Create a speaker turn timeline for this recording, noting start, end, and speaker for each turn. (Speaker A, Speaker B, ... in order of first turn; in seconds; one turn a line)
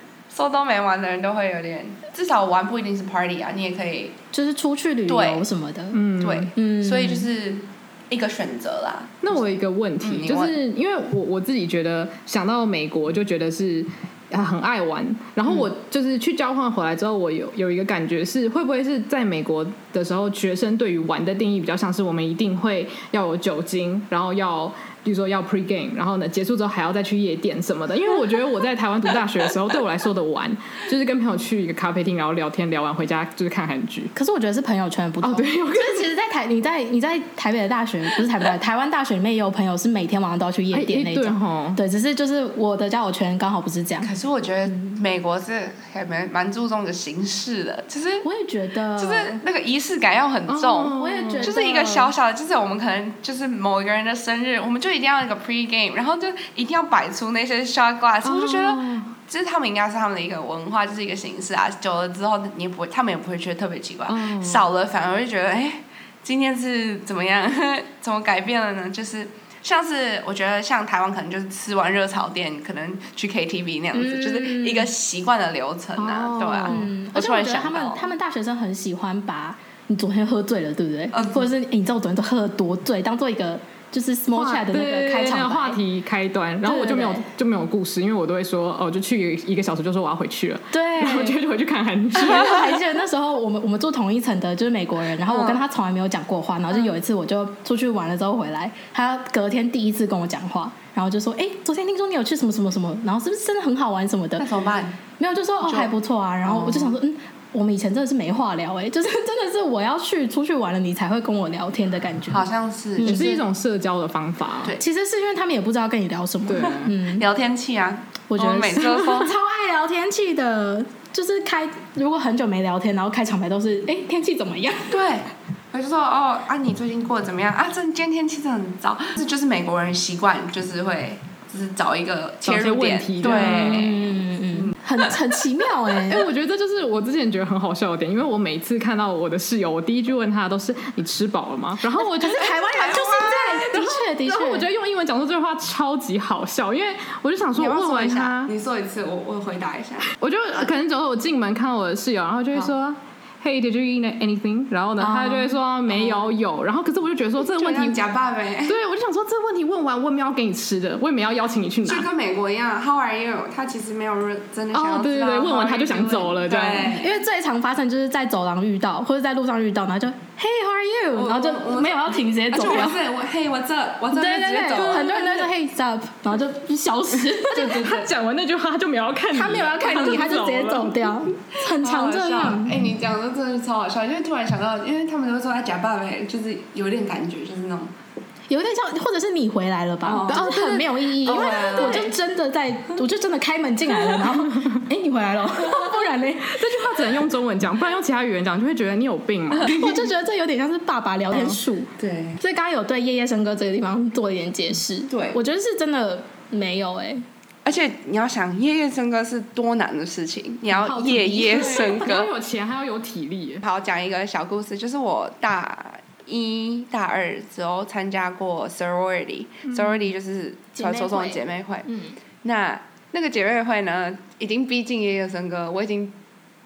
Speaker A: 0.3-4.2
Speaker B: 4.3-6.0
Speaker A: 5.1-5.5
Speaker C: 5.9-6.5
Speaker A: 6.2-9.4
Speaker B: 6.5-7.3
Speaker C: 9.2-34.1
Speaker A: 10.0-10.5
Speaker B: 34.1-44.1
Speaker C: 35.2-36.1
Speaker C: 40.7-41.8
Speaker A: 44.0-48.2
Speaker B: 44.7-45.0
Speaker B: 48.2-49.4
Speaker A: 49.0-78.1
Speaker C: 50.5-52.1
Speaker B: 50.9-51.8
Speaker C: 58.2-59.1
Speaker C: 64.1-64.7
Speaker B: 73.9-74.9
Speaker C: 76.0-76.9
Speaker B: 76.7-85.8
Speaker A: 81.1-81.5
Speaker C: 84.3-92.8
Speaker B: 86.6-87.2
Speaker B: 90.7-91.4
Speaker B: 92.1-104.5
Speaker A: 95.2-95.6
Speaker A: 104.4-105.0
Speaker B: 105.2-112.5
Speaker A: 105.6-105.9
Speaker A: 106.4-107.0
Speaker A: 112.3-113.4
Speaker B: 113.0-113.4
Speaker C: 113.0-114.7
Speaker B: 114.8-117.2
Speaker C: 116.5-116.9
Speaker A: 117.1-119.3
Speaker B: 118.3-125.0
Speaker A: 124.9-135.1
Speaker C: 132.4-133.9
Speaker B: 133.2-136.2
Speaker C: 136.1-148.5
Speaker B: 142.2-144.7
Speaker A: 142.2-143.8
Speaker A: 147.5-150.1
Speaker C: 150.1-158.0
Speaker B: 155.0-155.5
Speaker A: 155.9-156.2
Speaker A: 157.4-158.8
Speaker C: 158.7-162.1
Speaker A: 161.8-167.1
Speaker C: 164.7-167.0
Speaker B: 166.9-173.0
Speaker A: 171.1-175.5
Speaker B: 174.1-177.8
Speaker C: 174.8-175.1
Speaker C: 177.4-181.1
Speaker A: 177.5-178.1
Speaker B: 179.3-182.8
Speaker A: 181.8-187.9
Speaker B: 188.5-197.2
Speaker A: 190.0-192.1
Speaker C: 190.3-192.1
Speaker C: 194.1-194.7
Speaker C: 195.7-199.8
Speaker A: 199.6-199.8
Speaker B: 199.7-207.2
Speaker A: 202.0-202.4
Speaker A: 205.1-205.4
Speaker A: 207.6-212.3
Speaker B: 210.7-212.0
Speaker C: 211.4-213.6
Speaker A: 213.6-221.9
Speaker C: 219.7-220.1
Speaker B: 220.7-222.2
Speaker A: 222.4-226.1